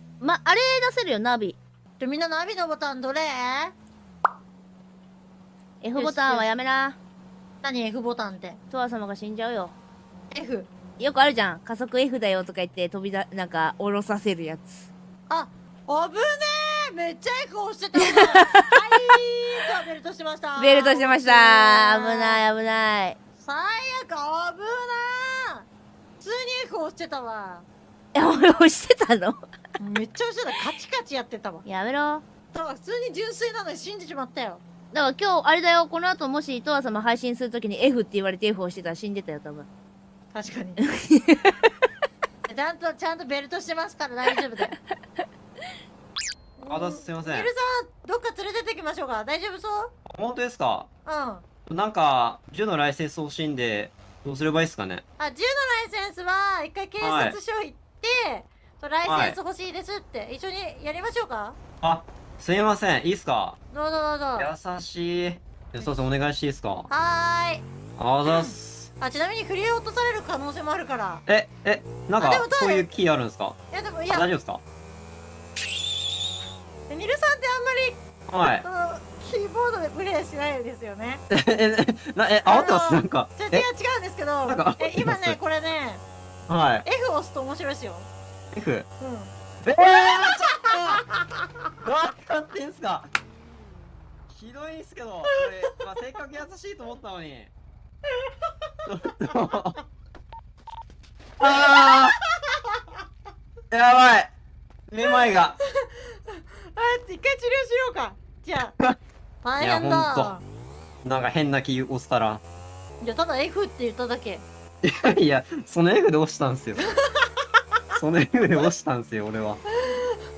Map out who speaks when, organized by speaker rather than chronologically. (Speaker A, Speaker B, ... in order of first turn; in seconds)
Speaker A: 0.2-1.6, 5.8-7.0, 8.7-9.7, 11.0-14.9, 18.2-18.7, 20.6-23.2, 28.1-29.4, 31.6-32.2, 34.9-39.7, 41.0-41.7
Speaker B: 2.0-3.7, 5.9-6.5, 7.6-8.6, 10.3-10.7, 15.3-22.4, 23.4-25.7, 26.2-27.6, 29.8-31.6, 32.5-34.6, 40.3-40.8, 42.5-44.7, 46.6-49.9, 51.0-51.4, 55.2-61.6, 63.7-64.5, 66.9-67.7, 68.3-71.2, 72.2-73.0, 73.7-74.3, 76.9-78.0, 78.6-81.2, 82.5-86.0, 86.8-88.1, 89.0-89.3, 89.9-90.4, 101.4-102.0, 105.0-105.2, 105.8-108.8, 109.4-110.4, 113.0-114.4, 119.8-120.2
Speaker C: 46.7-47.5, 50.1-50.9, 51.6-55.0, 57.0-57.4, 59.0-59.4, 61.8-63.6, 64.4-66.9, 68.0-68.9, 71.3-73.6, 74.1-74.6, 78.3-78.6, 81.3-83.7, 84.5-85.4, 86.5-86.8, 88.5-88.9, 89.6-91.0, 91.8-93.1, 94.3-97.5, 98.9-99.8, 101.4-102.2, 103.7-104.3, 104.9-105.6, 109.6-110.3, 111.0-112.4, 114.8-116.8, 117.9-119.6